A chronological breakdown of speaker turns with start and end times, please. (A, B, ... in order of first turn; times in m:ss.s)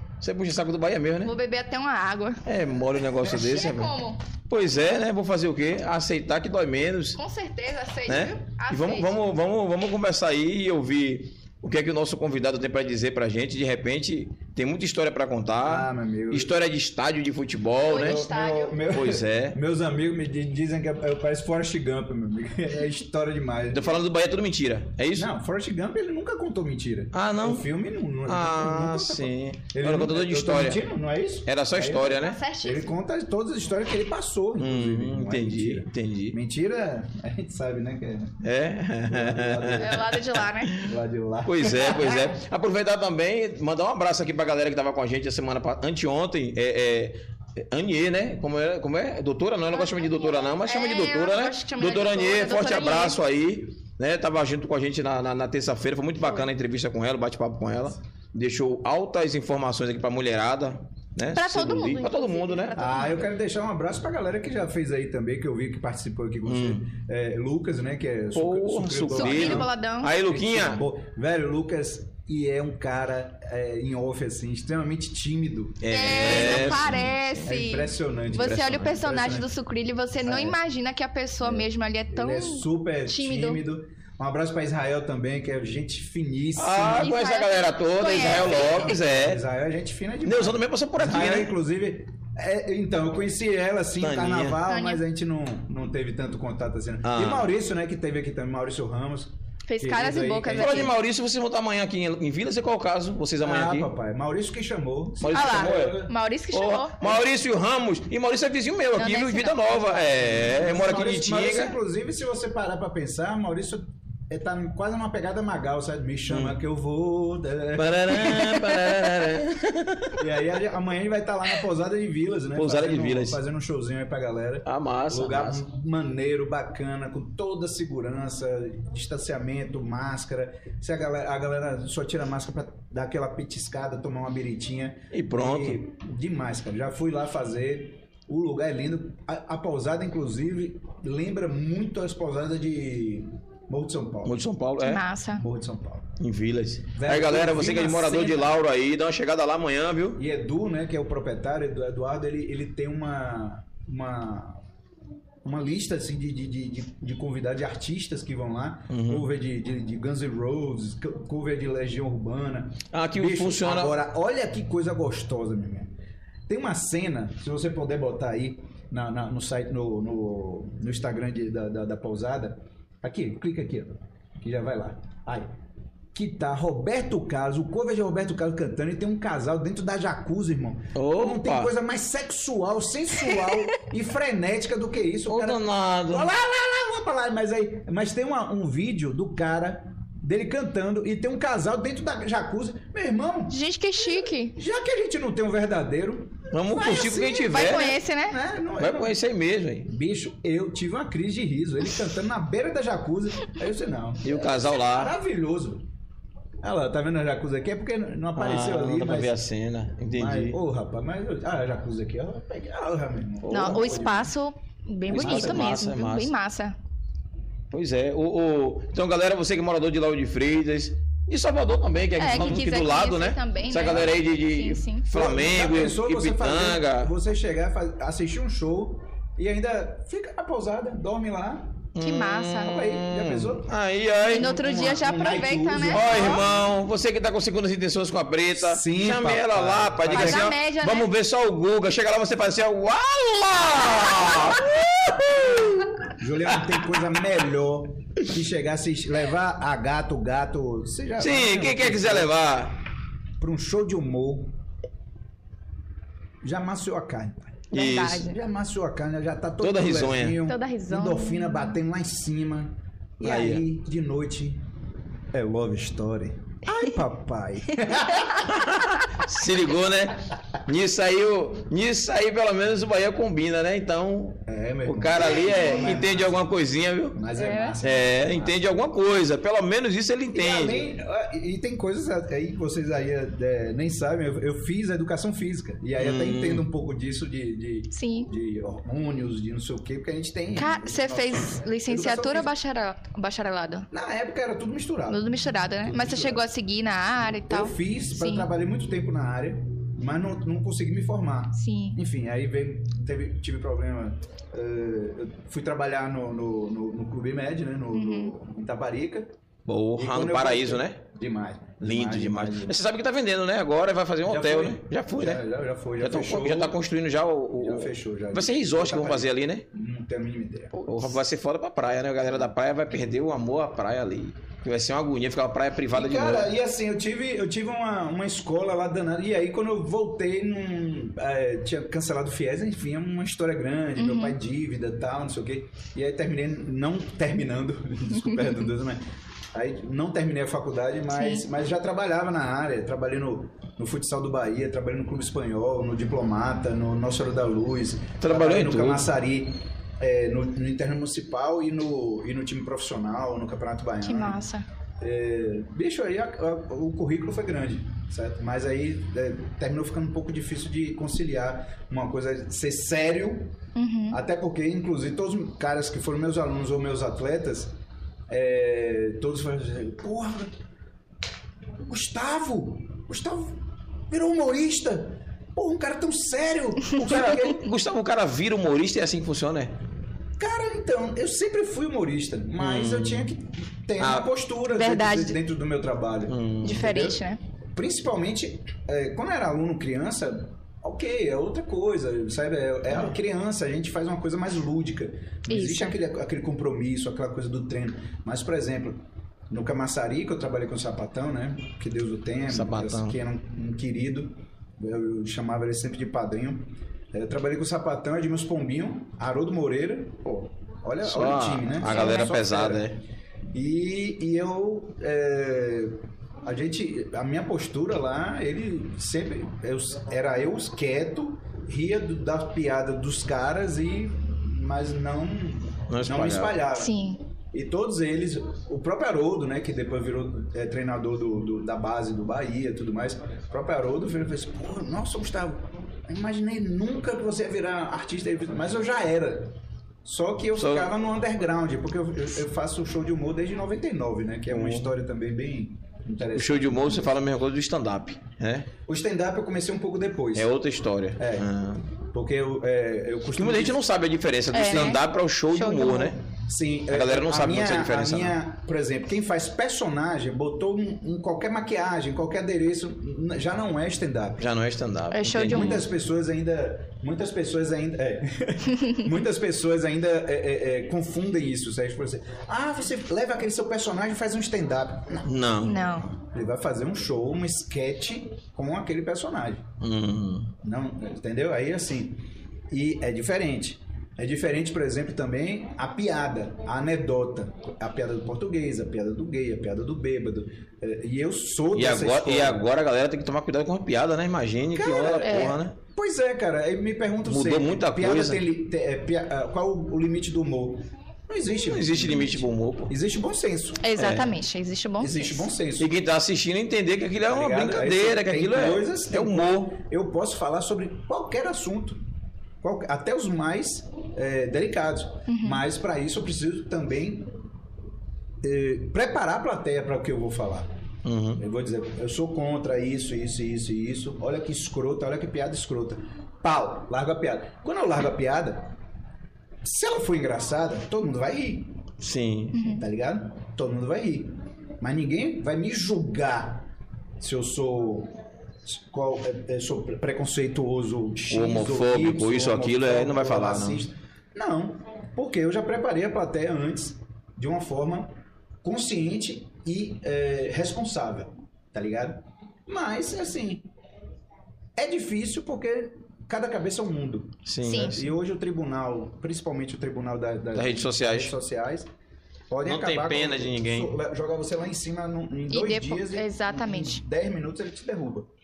0:00.2-0:01.3 A
0:01.2-0:02.4 B
0:02.4-0:07.2 A
0:03.2-0:04.2 B
0:07.2-0:09.2 B
0:08.1-0:18.3 A
0:15.6-0:16.5 C
0:17.8-0:18.8 B
0:17.9-0:23.9 C
0:18.9-0:19.6 A
0:23.7-0:25.3 A
0:25.1-0:38.4 C
0:27.1-0:27.7 A
0:28.2-0:30.8 A
0:31.4-0:32.4 A
0:32.1-0:32.9 B
0:34.6-0:36.4 A
0:38.4-1:02.7 A
0:39.0-0:40.1 C
0:39.8-0:40.8 B
0:40.8-0:42.3 C
0:49.7-0:53.2 B
1:01.3-1:03.3 B
1:02.8-1:19.5 C
1:06.4-1:06.9 A
1:08.3-1:10.8 A
1:09.1-1:10.1 B
1:15.8-1:17.4 A
1:15.9-1:23.6 B
1:18.3-1:18.9 A
1:20.2-1:20.6 C
1:21.4-1:27.1 C
1:26.6-1:29.4 A
1:27.0-1:28.9 B
1:28.2-1:40.9 C
1:30.2-1:31.5 A
1:34.0-1:34.6 A
1:34.6-1:35.0 B
1:37.0-1:37.5 A
1:39.7-1:40.9 B
1:40.6-1:43.9 A
1:43.4-1:46.1 C
1:45.2-1:51.7 A
1:45.3-1:47.2 B
1:49.0-1:50.2 B
1:50.2-1:58.6 C
1:56.3-1:56.6 A
1:57.8-2:00.2 A
2:00.2-2:24.4 C
2:02.5-2:03.4 A
2:04.6-2:05.6 A
2:15.1-2:15.8 A
2:24.2-2:25.0 A
2:24.8-2:25.4 B
2:25.3-2:26.1 C
2:26.2-2:30.2 A
2:26.9-2:28.5 C
2:30.2-2:34.6 C
2:35.4-2:45.9 C
2:38.9-2:39.3 A
2:42.9-2:44.0 A
2:46.5-2:55.5 C
2:56.1-3:13.6 C
3:00.9-3:01.7 A
3:05.3-3:06.3 A
3:13.5-3:14.6 B
3:14.5-3:17.7 C
3:16.5-3:18.0 A
3:17.2-3:18.4 B
3:18.2-3:19.2 C
3:18.8-3:19.9 A
3:19.9-3:25.8 C
3:24.2-3:25.1 A
3:26.6-3:29.4 C
3:28.4-3:30.6 A
3:30.1-3:34.3 C
3:33.5-3:33.9 A
3:33.5-3:36.8 B
3:35.1-3:36.3 A
3:35.1-3:35.7 C
3:37.7-3:47.1 A
3:42.2-3:45.1 B
3:45.1-3:51.8 C
3:52.0-3:54.5 A
3:52.0-3:52.8 B
3:52.6-3:53.7 C
3:54.2-3:56.4 B
3:54.3-3:56.6 C
3:55.9-4:06.8 A
3:58.5-4:00.5 C
4:00.1-4:01.1 B
4:06.2-4:12.4 C
4:11.2-4:12.8 A
4:13.4-4:14.5 C
4:16.4-4:24.6 C
4:17.7-4:18.3 A
4:17.7-4:18.4 B
4:19.6-4:20.4 A
4:20.4-4:21.8 B
4:23.2-4:23.6 A
4:25.3-4:28.5 C
4:28.4-4:37.2 A
4:34.4-4:36.4 C
4:35.4-4:35.8 B
4:37.1-4:38.7 C
4:37.3-4:37.8 B
4:37.8-4:40.9 A
4:40.3-4:52.5 C
4:46.0-4:46.6 A
4:47.9-4:48.3 B
4:50.6-4:53.9 B
4:53.9-4:55.3 C
4:55.1-4:58.5 B
4:55.8-4:56.4 C
4:57.5-5:09.3 C
5:01.5-5:02.0 B
5:07.9-5:08.3 B
5:09.7-5:11.0 A
5:10.0-5:12.8 C
5:11.8-5:15.4 A
5:14.2-5:16.8 C
5:16.0-5:19.6 A
5:17.6-5:20.8 C
5:20.8-5:21.0 B
5:20.9-5:26.5 A
5:25.9-5:54.4 C
5:34.0-5:34.4 B
5:41.1-5:41.4 B
5:48.2-5:49.1 A
5:54.0-5:54.6 B
5:55.0-6:03.5 C
6:03.7-6:04.2 B
6:04.1-6:07.7 C
6:08.3-6:10.5 C
6:11.8-6:13.6 C
6:14.1-6:17.6 C
6:17.0-6:19.7 A
6:20.4-6:27.2 C
6:22.6-6:23.3 A
6:24.0-6:24.3 A
6:24.7-6:25.4 B
6:26.3-6:27.1 A
6:26.6-6:27.4 B
6:27.7-6:52.9 C
6:35.5-6:36.0 B
6:42.5-6:43.2 A
6:51.0-6:53.0 A
6:51.8-6:52.3 B
6:53.5-7:06.9 C
7:05.9-7:06.6 A
7:06.7-7:07.2 B
7:07.5-7:27.1 C
7:20.6-7:20.9 A
7:24.5-7:24.9 A
7:26.4-7:28.7 A
7:28.8-7:30.5 C
7:30.3-7:31.8 A
7:31.2-7:33.8 C
7:33.4-7:36.2 A
7:34.5-7:36.1 B
7:36.5-7:44.5 C
7:36.9-7:38.4 A
7:44.4-7:45.8 A
7:45.1-7:45.8 B
7:45.4-7:55.3 C
7:55.2-7:56.0 A
7:55.6-7:56.1 B
7:56.1-7:59.6 C
7:59.8-8:00.5 A
8:00.6-8:12.6 C
8:11.7-8:15.7 A
8:14.7-8:23.9 C
8:15.2-8:15.6 B
8:17.2-8:18.4 A
8:21.5-8:22.9 A
8:23.8-8:25.5 B
8:24.0-8:24.4 A
8:25.0-8:25.9 C
8:25.8-8:29.7 A
8:27.2-8:32.0 C
8:32.6-8:37.3 C
8:35.3-8:35.6 B
8:38.4-8:40.7 C
8:41.0-8:41.4 A
8:41.4-8:48.7 C
8:49.6-8:51.8 C
8:52.0-8:52.6 A
8:52.5-8:52.8 B
8:52.7-8:56.7 C
8:57.2-8:58.1 C
8:58.6-9:08.1 C
9:01.3-9:03.8 A
9:08.6-9:13.6 C
9:14.8-9:21.9 C
9:17.4-9:18.1 A
9:17.6-9:18.0 B
9:20.5-9:21.3 A
9:22.5-9:28.3 C
9:22.6-9:23.9 A
9:25.5-9:27.0 B